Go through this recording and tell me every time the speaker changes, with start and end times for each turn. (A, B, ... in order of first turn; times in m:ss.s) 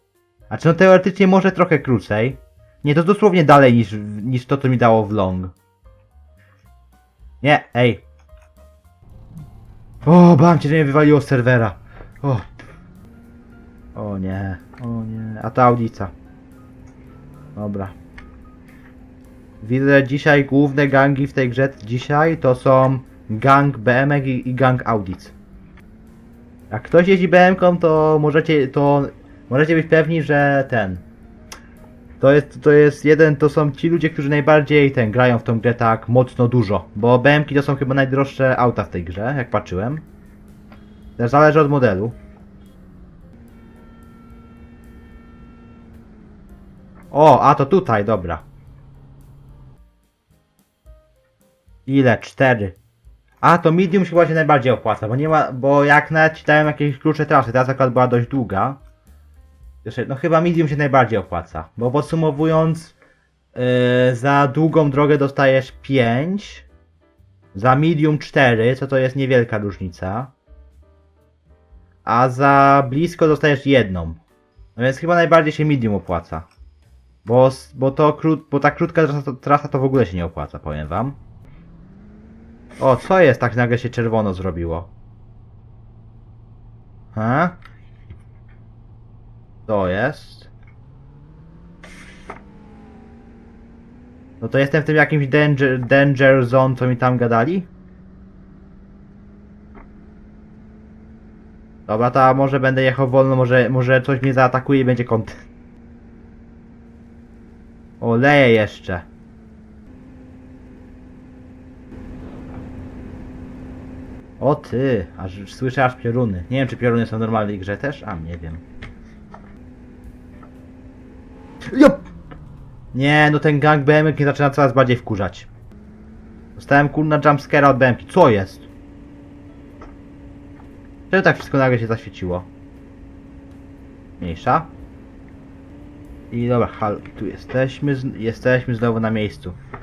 0:00.5-0:05.5 A
0:07.4-0:08.0 A
0:10.0-0:12.4 A
0:13.9-0:16.1 A
0:17.6-0:17.9 A
0:19.6-0:25.3 A
0:26.7-0:31.0 A
0:32.2-0:40.0 A
0:41.2-0:42.2 A
0:47.1-0:48.4 A
0:51.9-0:52.8 A
0:53.4-0:58.8 A
0:59.8-1:02.9 A
1:03.5-1:06.6 A
1:07.5-1:10.3 A
1:12.0-1:14.2 A
1:14.8-1:16.5 A
1:17.2-1:21.2 A
1:22.8-1:24.9 A
1:27.1-1:27.6 A
1:29.7-1:30.5 A
1:34.4-1:37.7 A
1:41.9-1:45.4 A
1:48.0-1:49.0 A
1:54.4-1:58.6 A
2:01.7-2:02.0 A
2:02.9-2:05.5 A
2:06.6-2:08.7 A
2:11.1-2:12.5 A
2:14.2-2:14.7 A
2:16.3-2:19.6 A